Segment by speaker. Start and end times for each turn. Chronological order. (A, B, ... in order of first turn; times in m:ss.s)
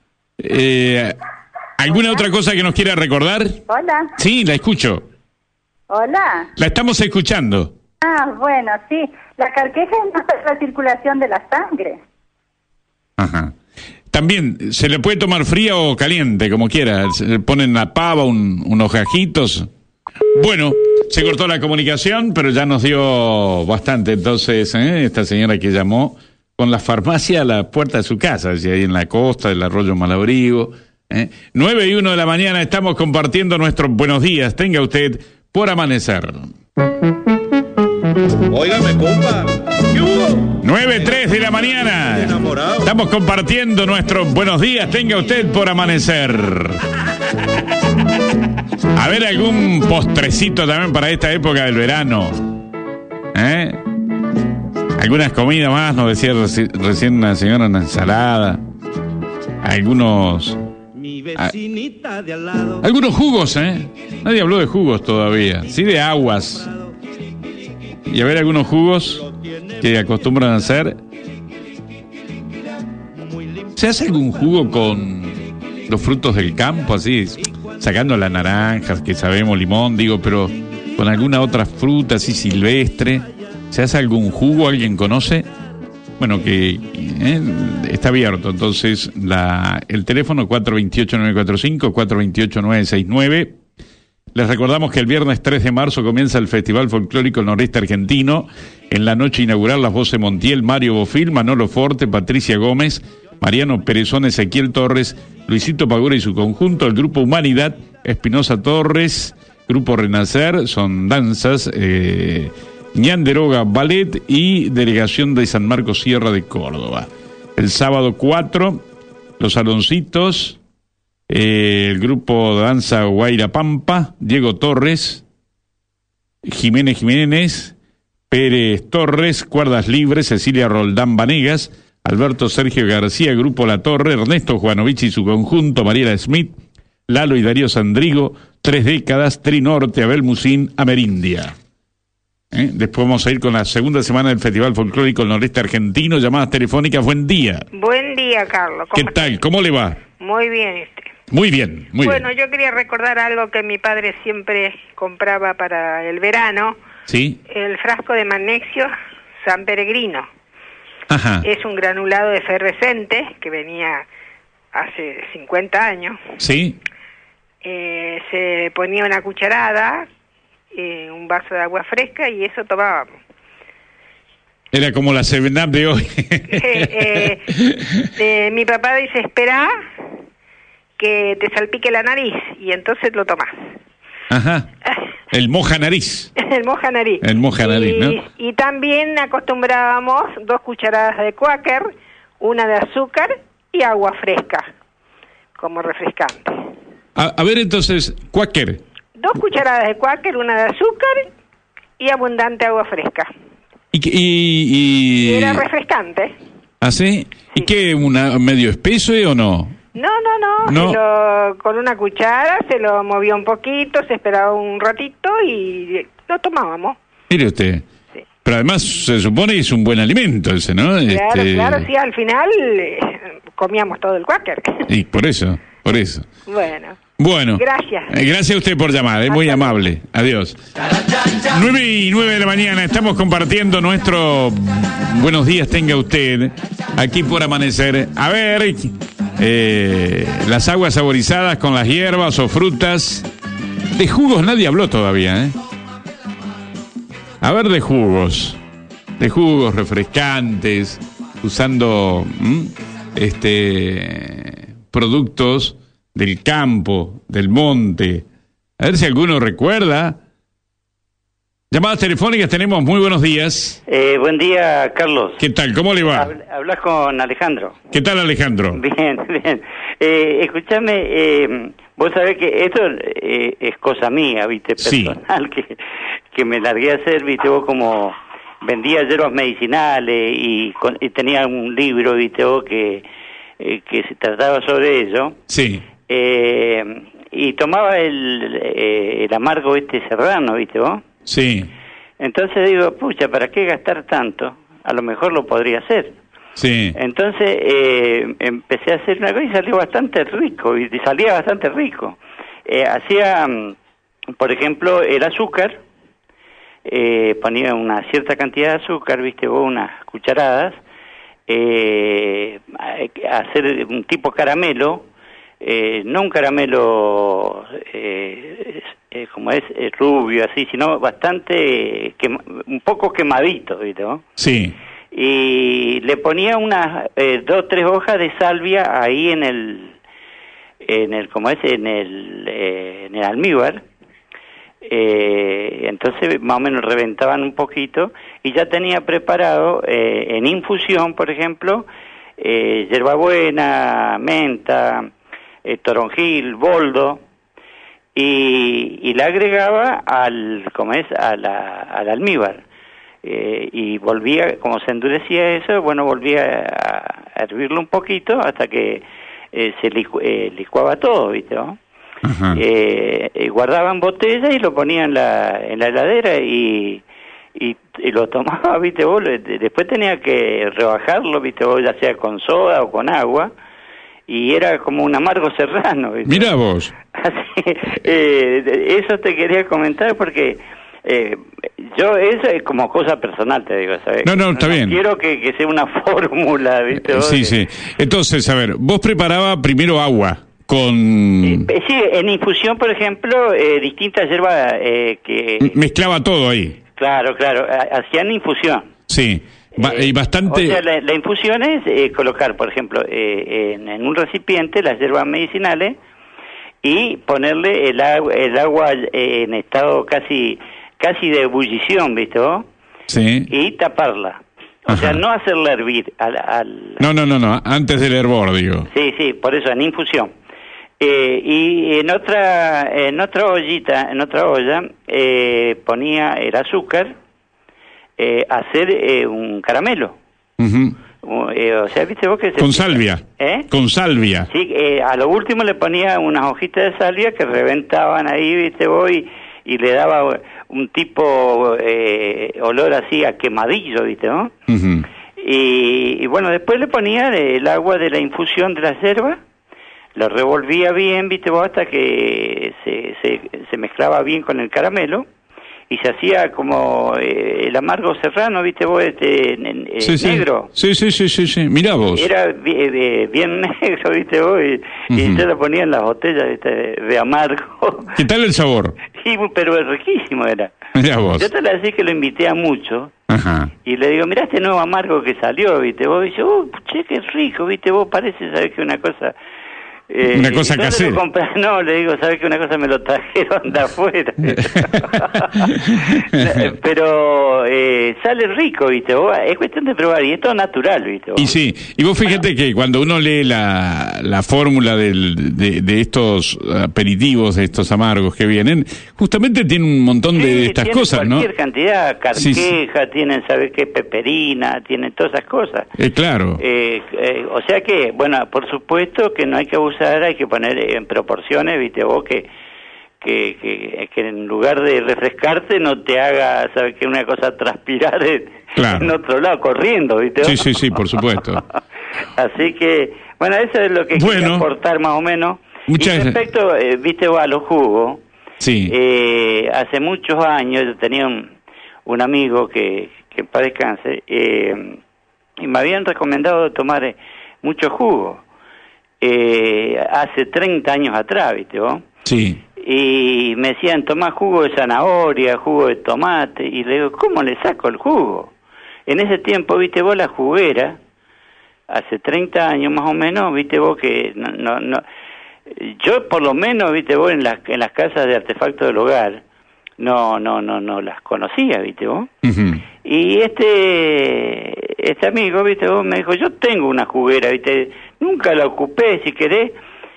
0:00.4-0:01.2 A
0:01.8-0:03.6 A
0:03.7-0:04.1 B
0:04.2-0:05.0 A
0:05.9-0:06.5 B
0:06.6-0:07.7 A
0:08.0-0:12.0 B
0:13.2-0:13.5 A
0:14.1-0:19.7 A
0:20.3-0:36.5 A
0:38.5-0:42.9 C
0:40.6-0:46.8 A
0:48.9-0:52.6 A
0:53.3-0:53.8 A
0:55.0-0:58.6 A
0:59.6-1:00.6 A
1:01.0-1:02.8 C
1:02.8-1:06.7 A
1:08.1-1:09.2 A
1:09.2-1:09.8 C
1:09.8-1:11.0 A
1:13.2-1:13.7 C
1:13.8-1:25.5 A
1:26.2-1:33.6 A
1:34.3-1:58.8 A
1:59.4-2:00.6 A
2:01.3-2:05.2 A
2:06.4-2:07.8 A
2:08.3-2:16.5 A
2:17.1-2:21.6 A
2:22.5-2:27.7 A
2:27.7-2:29.4 D
2:28.9-2:30.0 A
2:30.2-2:31.1 D
2:31.3-2:32.3 A
2:32.0-2:36.8 D
2:37.1-2:37.4 A
2:37.5-2:40.3 D
2:41.1-2:41.5 A
2:41.4-2:44.1 D
2:44.7-2:46.2 D
2:46.4-2:46.8 A
2:47.6-2:50.1 D
2:50.7-2:53.2 D
2:54.7-2:58.0 A
2:56.5-2:57.5 D
2:58.2-2:59.8 D
3:01.0-3:03.6 D
3:04.3-3:04.7 A
3:05.3-3:06.3 A
3:06.4-3:14.7 D
3:07.2-3:08.2 A
3:15.6-3:16.6 D
3:17.2-3:18.8 A
3:19.2-3:21.3 D
3:22.0-3:23.3 D
3:23.9-3:25.6 A
3:25.2-3:26.4 D
3:26.8-3:29.8 A
3:30.0-3:37.0 D
3:30.6-3:31.0 A
3:37.3-3:37.9 A
3:38.4-3:41.9 A
3:41.1-3:44.9 D
3:44.9-3:46.3 A
3:46.5-3:47.0 D
3:47.2-3:50.6 A
3:47.6-3:48.1 D
3:49.3-3:49.8 D
3:51.4-4:03.3 A
4:04.0-4:05.6 A
4:07.4-4:08.6 A
4:09.2-4:18.2 A
4:18.8-4:20.2 A
4:21.7-4:23.8 A
4:23.9-4:25.4 E
4:25.4-4:26.3 A
4:26.1-4:27.8 E
4:27.9-4:28.8 A
4:28.7-4:35.8 E
4:34.8-4:35.2 A
4:36.3-4:43.0 E
4:43.6-4:45.4 E
4:45.5-4:45.8 A
4:46.1-4:51.0 E
4:51.3-4:51.7 A
4:52.2-4:56.2 E
4:56.6-4:57.0 A
4:57.0-5:03.8 E
5:04.4-5:05.8 E
5:06.8-5:10.8 E
5:11.5-5:15.1 E
5:15.6-5:24.2 E
5:24.4-5:24.8 A
5:25.1-5:30.0 E
5:30.8-5:33.8 E
5:34.8-5:41.9 E
5:42.4-5:45.1 E
5:45.6-5:47.2 E
5:48.2-5:52.6 E
5:53.2-6:01.8 E
6:02.2-6:02.6 A
6:02.5-6:07.0 E
6:07.6-6:13.5 E
6:14.3-6:16.5 E
6:16.3-6:16.9 A
6:17.2-6:27.6 E
6:24.2-6:25.0 A
6:27.0-6:31.7 A
6:31.4-6:35.8 E
6:35.6-6:36.8 A
6:37.0-6:38.9 E
6:39.1-6:40.8 A
6:39.8-6:46.0 E
6:46.8-6:52.7 E
6:53.1-6:53.5 A
6:53.5-6:57.1 E
6:54.9-6:55.2 A
6:57.0-6:58.9 A
6:58.9-7:00.3 E
7:01.0-7:07.1 E
7:08.2-7:10.2 E
7:10.6-7:11.0 A
7:11.2-7:13.7 E
7:12.6-7:14.5 A
7:14.5-7:24.5 E
7:24.7-7:25.1 A
7:25.4-7:29.4 E
7:30.2-7:35.2 E
7:35.9-7:40.7 E
7:40.0-7:42.3 A
7:42.1-7:48.2 E
7:45.1-7:45.4 A
7:48.2-7:49.0 A
7:49.2-7:50.7 E
7:51.0-7:51.5 A
7:51.4-7:53.1 E
7:53.3-7:53.7 A
7:53.8-7:59.3 E
8:00.1-8:11.5 E
8:00.3-8:01.2 A
8:04.5-8:06.7 A
8:11.4-8:21.5 A
8:20.3-8:25.9 E
8:22.4-8:22.7 A
8:26.0-8:26.6 A
8:26.6-8:32.5 E
8:33.2-8:40.8 E
8:38.8-8:39.1 A
8:40.4-8:41.6 A
8:42.4-8:48.2 E
8:44.2-8:44.7 A
8:45.9-8:46.4 A
8:48.6-8:48.9 A
8:48.9-8:51.5 E
8:52.1-8:55.0 E
8:55.6-8:58.4 E
8:59.2-9:02.1 E
9:02.3-9:02.6 A
9:02.8-9:08.5 E
9:09.1-9:11.0 E
9:11.9-9:15.0 E
9:15.7-9:19.4 E
9:20.0-9:22.3 E
9:22.4-9:22.8 A
9:23.0-9:29.8 E